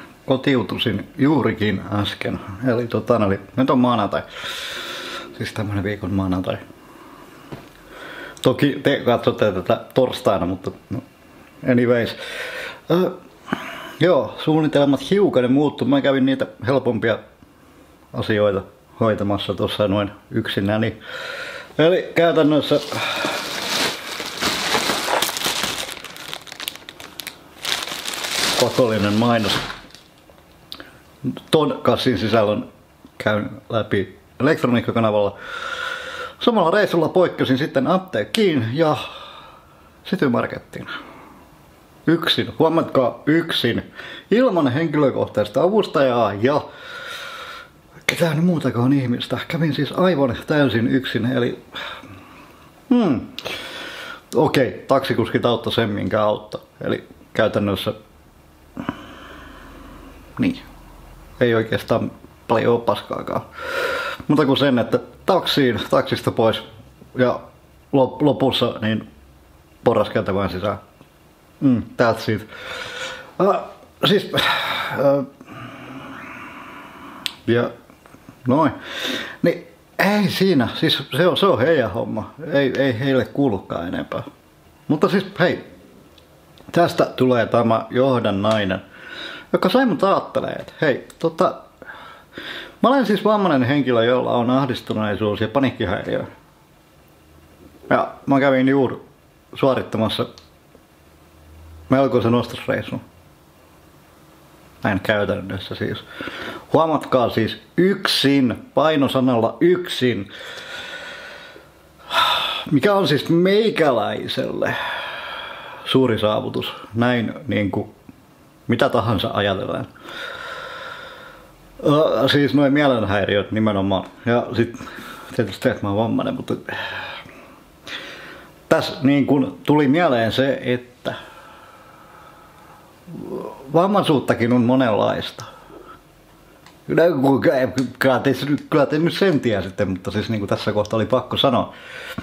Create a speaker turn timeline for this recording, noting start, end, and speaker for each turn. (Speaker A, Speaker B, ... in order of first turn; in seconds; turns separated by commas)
Speaker A: 0.3-4.2, Speaker A: 5.3-6.6, Speaker A: 8.4-11.0, Speaker A: 11.6-12.2, Speaker A: 12.9-13.2, Speaker A: 14.0-17.2, Speaker A: 18.1-20.9, Speaker A: 21.8-23.3, Speaker A: 28.6-29.6, Speaker A: 31.3-32.7, Speaker A: 33.2-35.4, Speaker A: 36.4-39.0, Speaker A: 40.0-40.9, Speaker A: 42.1-46.6, Speaker A: 48.1-51.6, Speaker A: 52.9-53.5, Speaker A: 54.3-57.9, Speaker A: 60.4-60.6, Speaker A: 61.4-66.6, Speaker A: 67.2-69.0, Speaker A: 69.8-70.8, Speaker A: 71.6-72.5, Speaker A: 73.4-75.3, Speaker A: 77.5-77.7, Speaker A: 78.5-84.2, Speaker A: 84.9-85.6, Speaker A: 86.7-88.8, Speaker A: 89.5-91.6, Speaker A: 92.8-96.3, Speaker A: 97.9-99.0, Speaker A: 99.5-100.3, Speaker A: 101.9-103.0, Speaker A: 104.8-106.0, Speaker A: 106.7-110.3, Speaker A: 112.1-114.8, Speaker A: 115.8-117.9, Speaker A: 118.7-119.9, Speaker A: 121.8-127.0, Speaker A: 128.7-131.2, Speaker A: 133.1-135.5, Speaker A: 136.9-141.7